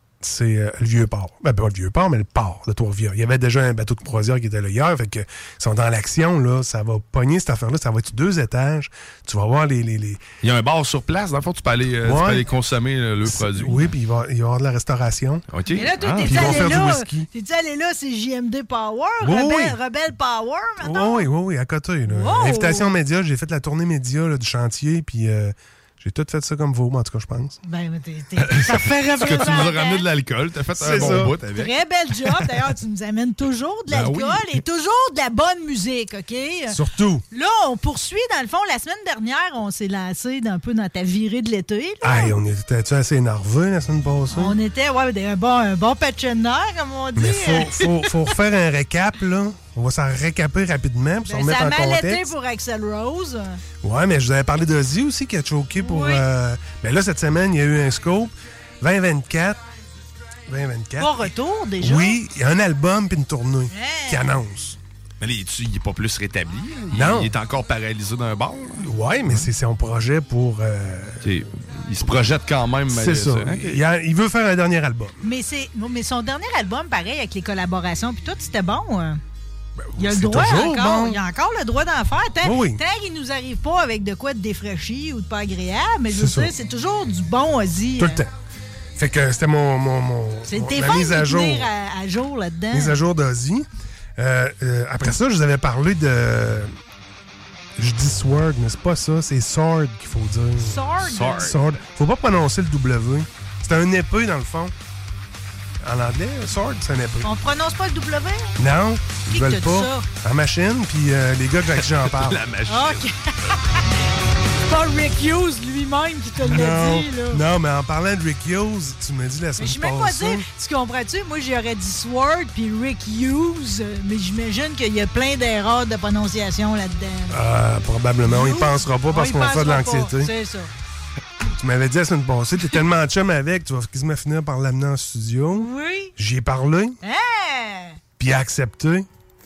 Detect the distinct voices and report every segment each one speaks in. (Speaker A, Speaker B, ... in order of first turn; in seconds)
Speaker A: 0.2-10.3, 12.0-12.5, 13.2-15.5, 16.2-17.3, 19.2-19.8, 20.8-27.6, 30.8-31.3, 36.7-37.2, 42.0-44.6, 47.2-52.3, 53.8-59.6, 60.5-64.8, 66.9-67.3, 68.8-71.3, 72.9-75.2, 79.9-81.2, 82.4-82.8, 86.1-86.5, 88.0-88.3, 89.0-91.7, 92.7-93.7, 94.2-96.7, 97.8-100.8, 101.3-104.7, 105.8-107.3, 108.6-112.4, 116.4-120.5, 127.3-130.3, 131.6-137.0, 138.2-139.1
Speaker B: 10.4-13.9, 15.5-16.6, 28.4-32.5, 33.9-34.6, 65.2-69.5, 71.2-73.8, 101.0-101.6, 111.8-113.0
Speaker C: 15.7-21.3, 22.1-23.0, 27.6-30.1, 30.9-36.8, 37.3-42.4, 44.3-48.3, 51.2-53.6, 55.8-56.2, 61.0-62.2, 63.7-64.3, 75.2-79.2, 80.0-88.2, 90.5-93.0, 100.6-101.5, 107.2-108.5, 109.2-110.1, 112.7-113.6, 114.7-117.4, 119.6-127.4, 128.2-130.7, 135.6-136.1, 137.0-138.0